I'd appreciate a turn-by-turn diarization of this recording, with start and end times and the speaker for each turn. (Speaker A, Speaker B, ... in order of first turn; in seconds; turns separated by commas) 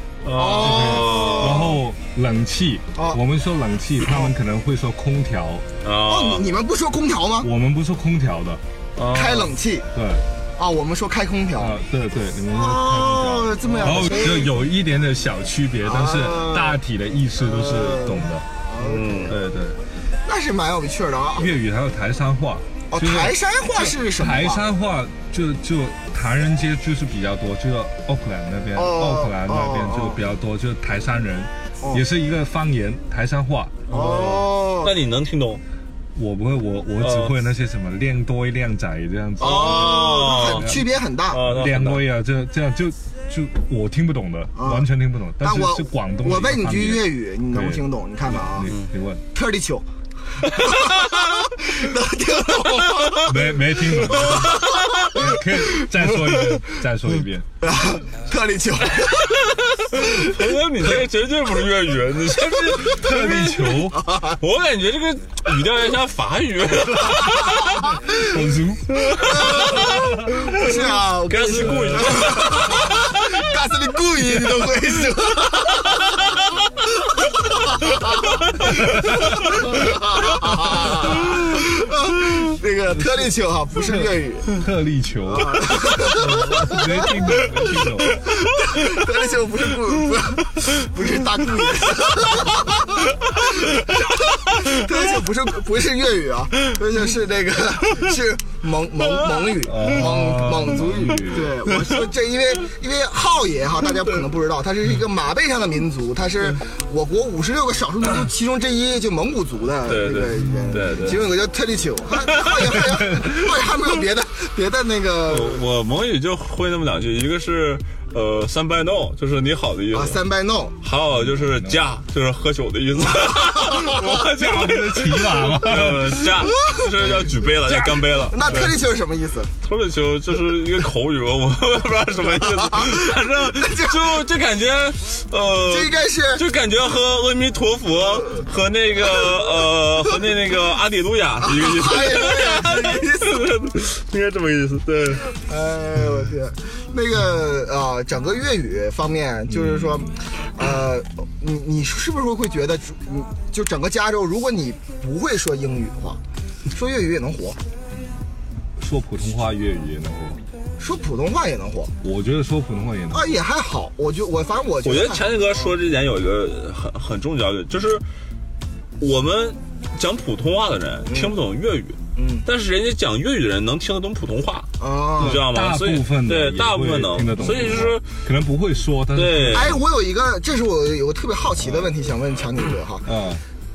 Speaker A: 0.2-1.8, Speaker B: 0.4-1.8, Speaker C: 0.6-5.7, Speaker A: 5.8-6.5, Speaker B: 6.1-7.5, Speaker C: 7.4-8.6, Speaker A: 9.0-9.5, Speaker B: 9.1-9.9, Speaker C: 9.9-10.2, Speaker B: 10.6-11.7, Speaker C: 11.6-18.5, Speaker B: 12.5-14.5, Speaker B: 15.8-16.8, Speaker B: 17.4-19.4, Speaker A: 18.8-19.4, Speaker C: 19.3-19.8, Speaker B: 20.2-21.5, Speaker C: 21.4-33.9, Speaker B: 22.9-24.6, Speaker B: 28.8-30.2, Speaker A: 33.9-35.6, Speaker B: 33.9-34.9, Speaker C: 36.1-40.9, Speaker A: 37.0-37.3, Speaker B: 39.4-41.4, Speaker A: 39.4-40.7, Speaker A: 41.3-42.0, Speaker C: 41.4-49.2, Speaker B: 44.6-44.9, Speaker B: 45.4-48.7, Speaker B: 49.3-49.9, Speaker B: 50.4-53.3, Speaker A: 50.6-51.1, Speaker C: 53.2-57.5, Speaker A: 54.2-54.7, Speaker B: 57.6-60.3, Speaker A: 59.0-67.9, Speaker C: 62.8-64.0, Speaker B: 64.0-64.4, Speaker B: 67.8-68.3, Speaker C: 68.2-69.0, Speaker A: 68.9-70.0, Speaker B: 69.2-76.2, Speaker A: 70.5-73.0, Speaker B: 77.2-84.5, Speaker C: 82.9-88.1, Speaker B: 85.3-87.1, Speaker B: 88.5-115.6, Speaker C: 99.6-101.6, Speaker A: 109.9-111.2, Speaker C: 110.4-111.0, Speaker A: 112.2-112.7, Speaker C: 112.9-113.5, Speaker A: 115.3-120.2, Speaker B: 119.9-120.8, Speaker A: 120.8-128.8, Speaker C: 121.1-121.8, Speaker B: 123.5-123.8, Speaker C: 123.9-126.4, Speaker B: 126.5-126.9, Speaker B: 127.7-129.5, Speaker A: 129.6-145.3, Speaker B: 132.7-134.1, Speaker B: 135.7-136.4, Speaker B: 141.4-143.4, Speaker B: 145.3-156.2, Speaker B: 156.7-157.6, Speaker C: 158.8-160.4, Speaker B: 160.8-161.9, Speaker C: 162.0-163.3, Speaker B: 163.1-165.3, Speaker A: 164.8-168.1, Speaker A: 169.0-178.1, Speaker B: 171.1-171.3, Speaker B: 172.2-172.4, Speaker B: 174.8-175.4, Speaker C: 175.2-179.8, Speaker A: 179.1-179.8, Speaker B: 179.5-183.1, Speaker C: 183.1-183.4